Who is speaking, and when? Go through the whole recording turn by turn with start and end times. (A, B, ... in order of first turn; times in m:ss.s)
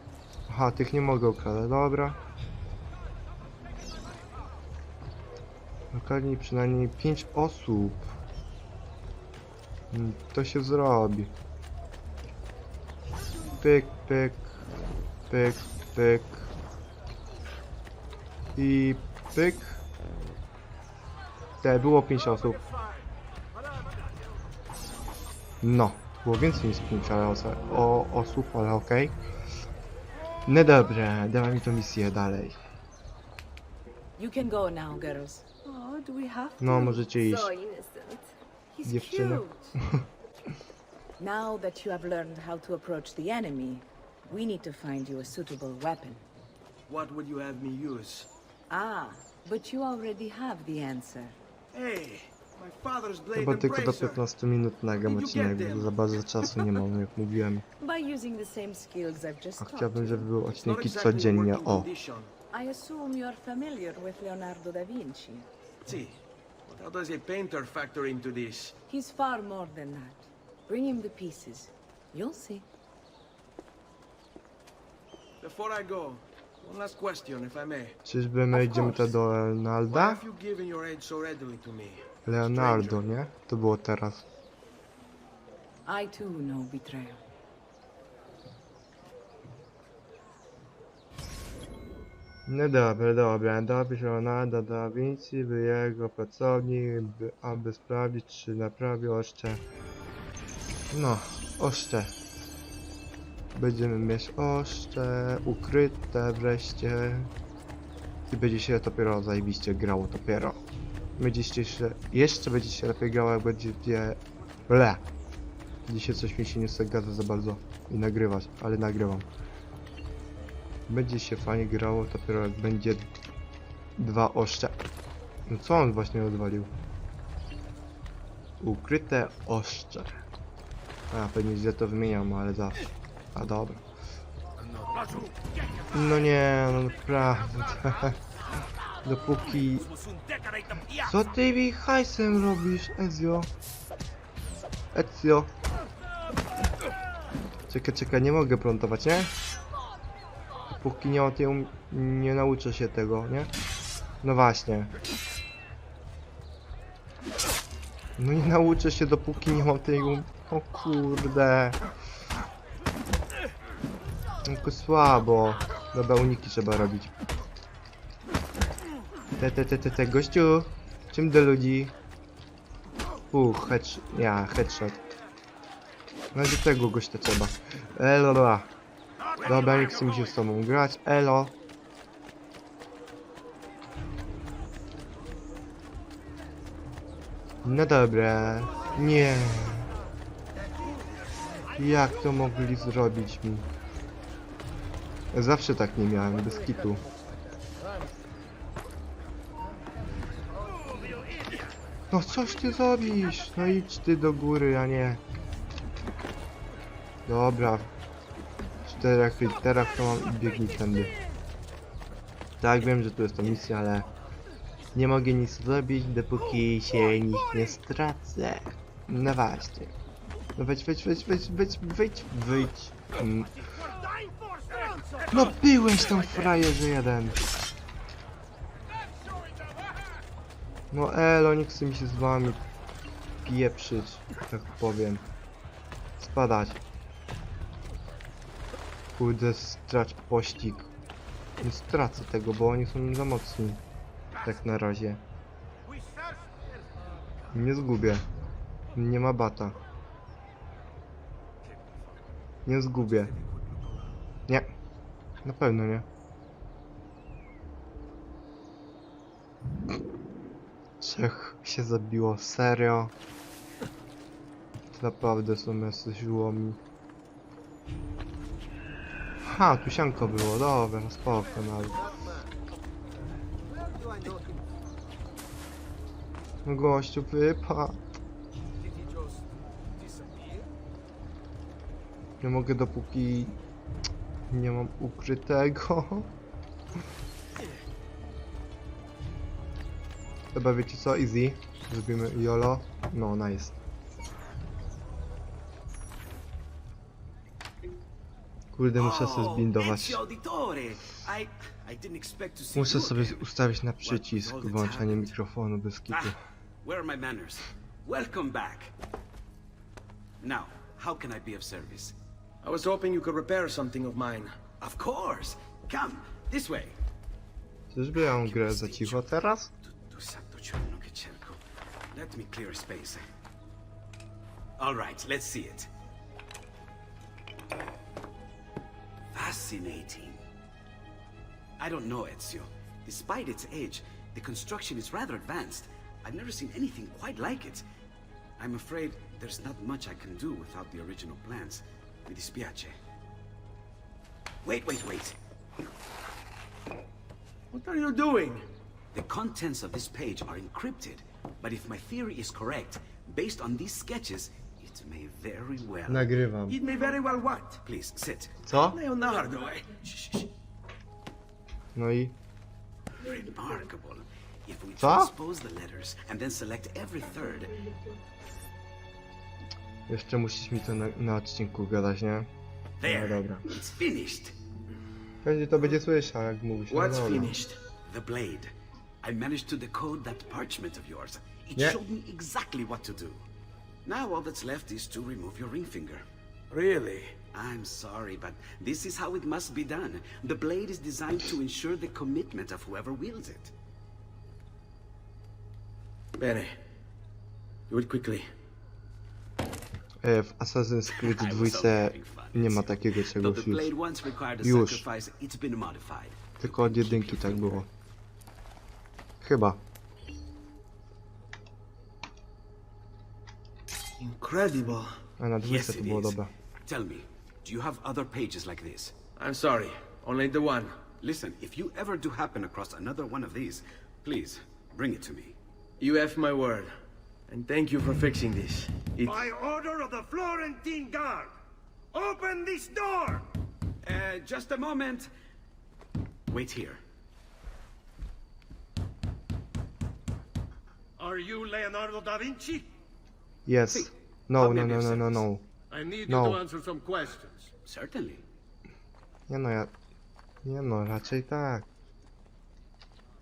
0:00.5-0:02.2 A
0:05.9-0:08.2 A
0:09.9-0:11.4 A
0:13.6-0:14.5 A
0:15.3-0:16.5 A
0:18.6-0:19.8 A
0:21.6-0:22.6 A
0:25.6-0:29.2 A
0:30.5-0:32.6 A
0:34.2-0:35.6 B
0:35.7-0:38.3 C
0:36.6-0:37.5 A
0:38.8-0:39.5 B
0:38.8-0:39.7 C
0:38.8-0:40.0 A
0:41.2-0:46.2 B
0:46.9-0:48.3 D
0:48.7-0:51.4 B
0:51.7-0:54.2 D
0:53.3-0:57.6 A
0:55.0-0:55.9 D
0:57.8-1:00.3 B
0:59.6-1:01.9 A
1:00.5-1:02.3 D
1:02.5-1:05.5 B
1:05.8-1:08.8 D
1:08.9-1:12.7 B
1:15.4-1:18.0 D
1:18.0-1:20.2 A
1:18.5-1:19.2 B
1:19.9-1:23.0 D
1:22.3-1:24.3 A
1:25.9-1:27.2 B
1:32.5-1:39.6 A
1:40.9-1:42.2 A
1:43.6-1:47.3 A
1:48.3-1:50.6 A
1:51.2-1:55.0 A
1:55.9-1:59.3 A
2:00.9-2:03.1 A
2:04.0-2:04.8 A
2:05.5-2:06.7 A
2:08.6-2:10.2 A
2:11.1-2:13.8 A
2:14.6-2:15.9 E
2:15.9-2:18.2 A
2:19.0-2:19.9 A
2:19.6-2:21.1 E
2:21.0-2:23.5 A
2:24.9-2:25.5 A
2:27.7-2:29.4 A
2:30.8-2:33.5 A
2:34.2-2:34.9 A
2:38.2-2:41.8 A
2:44.4-2:47.1 A
2:49.4-2:52.0 A
2:53.3-2:55.1 A
2:56.3-2:58.7 A
2:59.4-3:01.6 A
3:07.6-3:09.9 A
3:11.8-3:13.7 A
3:15.3-3:17.0 A
3:22.1-3:25.2 A
3:27.3-3:27.9 A
3:28.8-3:31.1 A
3:32.6-3:34.1 A
3:35.0-3:40.0 A
3:40.6-3:43.6 A
3:45.3-3:47.4 A
3:50.9-3:52.6 A
3:53.4-3:55.3 A
3:56.2-3:56.8 A
3:59.1-4:00.9 A
4:01.6-4:03.8 A
4:04.4-4:05.2 A
4:07.5-4:08.3 A
4:08.9-4:09.8 A
4:12.6-4:13.3 A
4:15.4-4:16.1 A
4:21.0-4:23.1 A
4:24.9-4:26.8 A
4:29.4-4:32.1 A
4:36.6-4:38.0 A
4:38.9-4:39.4 D
4:40.0-4:40.6 D
4:42.4-4:43.6 A
4:44.5-4:46.3 A
4:50.5-4:53.8 A
4:58.7-5:00.2 A
4:59.0-5:03.5 F
5:02.8-5:06.4 A
5:04.0-5:05.3 F
5:06.1-5:08.9 F
5:10.4-5:12.2 F
5:12.6-5:14.6 D
5:14.8-5:17.0 F
5:17.9-5:19.7 A
5:18.3-5:19.3 F
5:19.8-5:21.6 F
5:22.1-5:23.2 F
5:24.8-5:25.9 F
5:29.3-5:30.4 F
5:31.8-5:37.8 F
5:38.6-5:43.0 F
5:44.6-5:45.4 F
5:47.7-5:48.6 D
5:49.1-5:56.3 F
5:56.1-5:56.8 A
5:56.7-5:57.8 D
5:57.8-5:58.6 F
5:58.6-5:59.0 A
5:58.8-6:00.5 D
6:02.0-6:02.4 A
6:03.2-6:07.9 F
6:05.0-6:05.3 A
6:10.1-6:12.5 A
6:13.0-6:14.6 F
6:13.0-6:13.6 A
6:15.4-6:17.5 A
6:16.9-6:17.8 D
6:18.0-6:18.7 F
6:19.2-6:23.4 F
6:24.0-6:26.2 F
6:26.7-6:27.4 D
6:27.5-6:33.7 F
6:36.4-6:36.8 D
6:37.9-6:38.5 D
6:40.2-6:43.9 A
6:41.2-6:47.9 F
6:44.6-6:45.1 A
6:46.6-6:47.9 A
6:49.4-6:49.8 A
6:54.2-6:55.1 D
6:55.4-6:56.5 A
6:55.6-6:59.1 F
6:59.4-7:01.0 D
7:01.2-7:05.6 F
7:06.0-7:06.9 D
7:07.5-7:09.5 D
7:09.3-7:11.5 E
7:12.1-7:13.4 E
7:14.0-7:15.3 F
7:16.5-7:17.0 F
7:21.2-7:22.9 E
7:23.7-7:25.7 A
7:23.9-7:25.4 F
7:25.9-7:27.7 E
7:26.2-7:26.6 A
7:27.9-7:28.4 F
7:29.5-7:29.9 A
7:30.6-7:31.9 A